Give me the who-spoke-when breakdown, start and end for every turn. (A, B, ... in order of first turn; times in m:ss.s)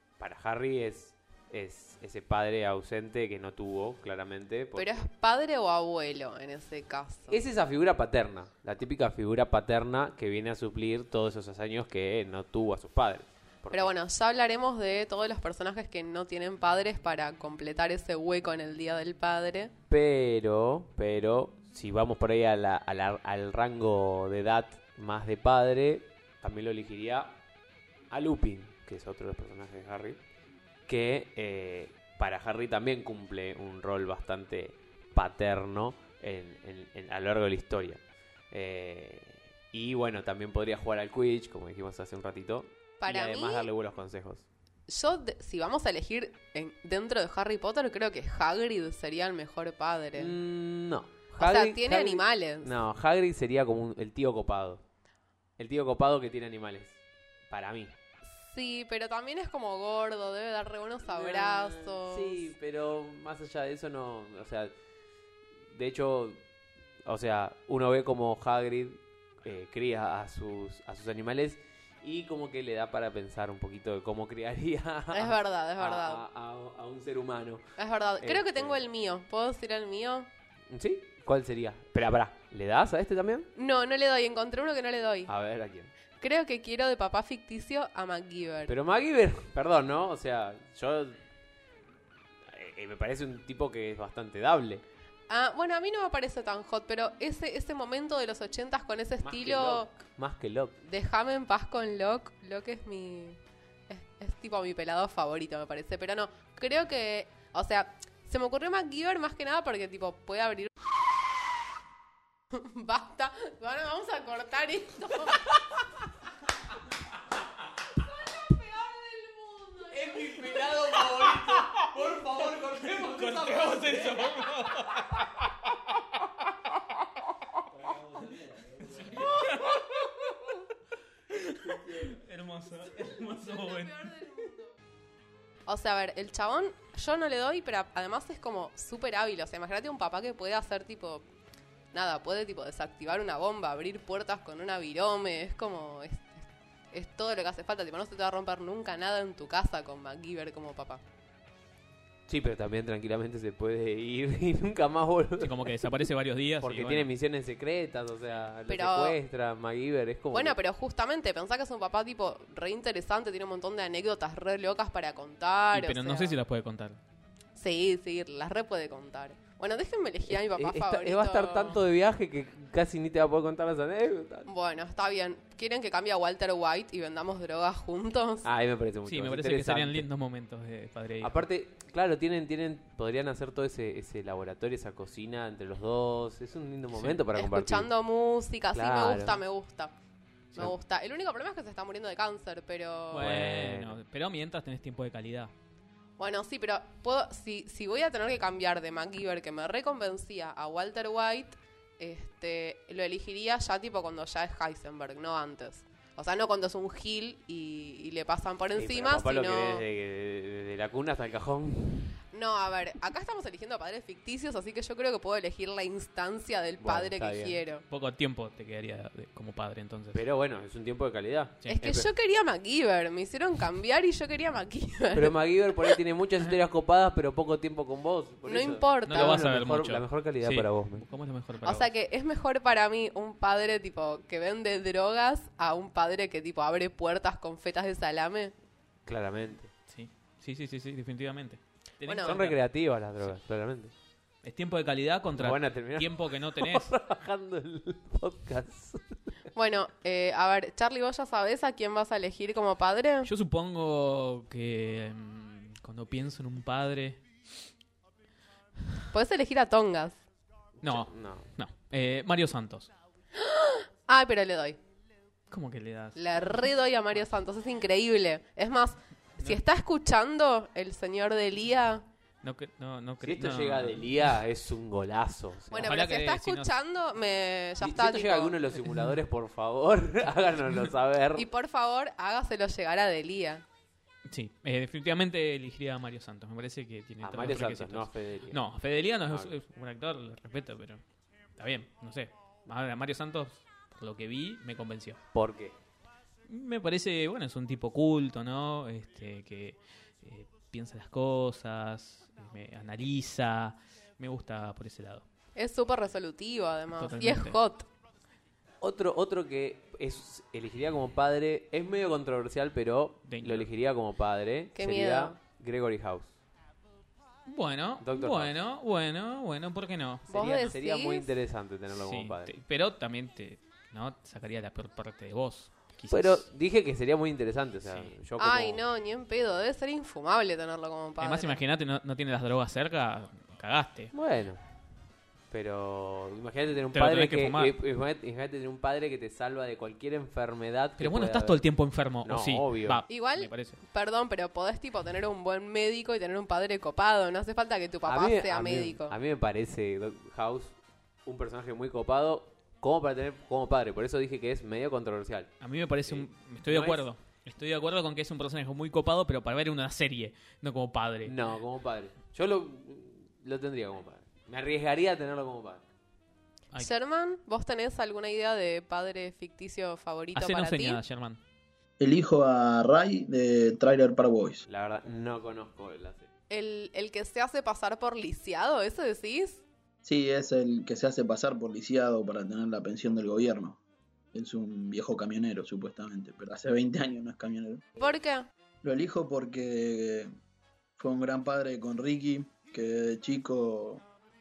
0:00.2-0:05.0 A
0:04.8-0:07.4 B
0:07.3-0:13.9 A
0:13.7-0:19.7 B
0:19.9-0:27.4 A
0:28.1-0:30.2 A
0:30.9-0:44.4 A
0:43.0-0:43.7 B
0:44.9-0:50.4 B
0:50.1-0:54.8 A
0:51.4-0:52.7 B
0:55.6-0:57.0 A
0:57.5-0:57.9 A
0:58.3-1:02.4 B
1:01.0-1:04.7 A
1:05.7-1:06.4 A
1:07.0-1:17.7 A
1:15.1-1:16.2 B
1:17.8-1:20.3 B
1:18.2-1:18.8 A
1:20.7-1:23.5 A
1:23.6-1:25.3 B
1:25.3-1:25.9 A
1:26.2-1:28.7 B
1:28.7-1:31.2 A
1:32.5-1:34.8 A
1:35.3-1:39.9 B
1:39.2-1:40.8 A
1:40.8-1:50.7 B
1:52.5-1:55.6 B
1:58.0-2:00.2 B
1:59.9-2:04.2 A
2:01.2-2:05.2 C
2:08.8-2:10.1 C
2:11.3-2:14.1 C
2:13.6-2:14.6 B
2:15.7-2:21.2 B
2:21.9-2:31.0 B
2:32.3-2:35.9 A
2:35.4-2:37.1 C
2:36.6-2:40.6 A
2:38.7-2:39.2 B
2:40.3-2:46.4 B
2:45.7-2:47.0 C
2:47.6-2:51.8 B
2:50.3-2:54.5 A
2:54.4-2:58.5 B
2:58.4-3:00.0 A
2:59.0-3:01.4 C
3:01.2-3:07.9 A
3:06.9-3:07.2 C
3:07.3-3:09.9 B
3:08.7-3:09.4 A
3:10.5-3:13.3 B
3:13.1-3:15.5 C
3:13.2-3:14.0 A
3:16.2-3:29.8 B
3:28.8-3:32.1 A
3:32.3-3:37.8 B
3:36.8-3:37.6 A
3:37.9-3:40.2 C
3:40.1-3:42.1 A
3:41.6-3:42.0 C
3:41.7-3:45.9 B
3:45.1-3:51.0 A
3:48.4-3:49.4 B
3:49.0-3:51.9 C
3:51.6-3:58.5 B
3:59.0-3:59.7 A
3:59.9-4:02.6 C
4:02.0-4:02.4 B
4:02.2-4:03.9 A
4:04.4-4:06.9 C
4:05.3-4:09.2 A
4:09.5-4:13.3 B
4:13.2-4:17.2 C
4:19.1-4:20.2 B
4:20.8-4:21.5 A
4:20.8-4:22.9 C
4:23.4-4:24.8 B
4:25.5-4:26.7 C
4:26.2-4:32.0 B
4:32.4-4:34.4 C
4:33.2-4:35.9 A
4:35.7-4:38.6 B
4:35.8-4:36.7 C
4:37.8-4:41.5 A
4:41.3-4:43.6 B
4:44.2-4:51.0 C
4:47.2-4:48.6 A
4:49.3-4:49.5 A
4:51.6-4:55.2 C
4:55.3-4:55.7 A
4:56.5-5:05.2 C
5:05.6-5:07.9 B
5:07.0-5:07.6 C
5:08.8-5:16.3 A
5:13.2-5:13.7 C
5:14.7-5:15.4 B
5:17.4-5:20.3 C
5:18.0-5:18.5 A
5:20.3-5:22.5 A
5:20.3-5:21.3 B
5:21.9-5:26.4 C
5:26.1-5:28.8 A
5:27.8-5:28.1 C
5:28.4-5:31.6 B
5:31.2-5:34.1 C
5:34.1-5:34.6 A
5:35.5-5:41.6 A
5:36.9-5:37.7 C
5:41.0-5:43.8 C
5:42.2-5:43.0 A
5:43.1-5:49.1 B
5:48.0-5:55.5 A
5:55.6-6:01.5 C
5:56.0-5:57.0 A
6:01.2-6:05.8 A
6:06.8-6:11.0 B
6:10.4-6:11.4 C
6:12.0-6:14.6 D
6:14.7-6:16.3 A
6:16.5-6:19.6 B
6:20.0-6:23.8 D
6:24.3-6:27.8 D
6:28.0-6:28.5 B
6:28.8-6:30.3 D
6:31.0-6:34.0 D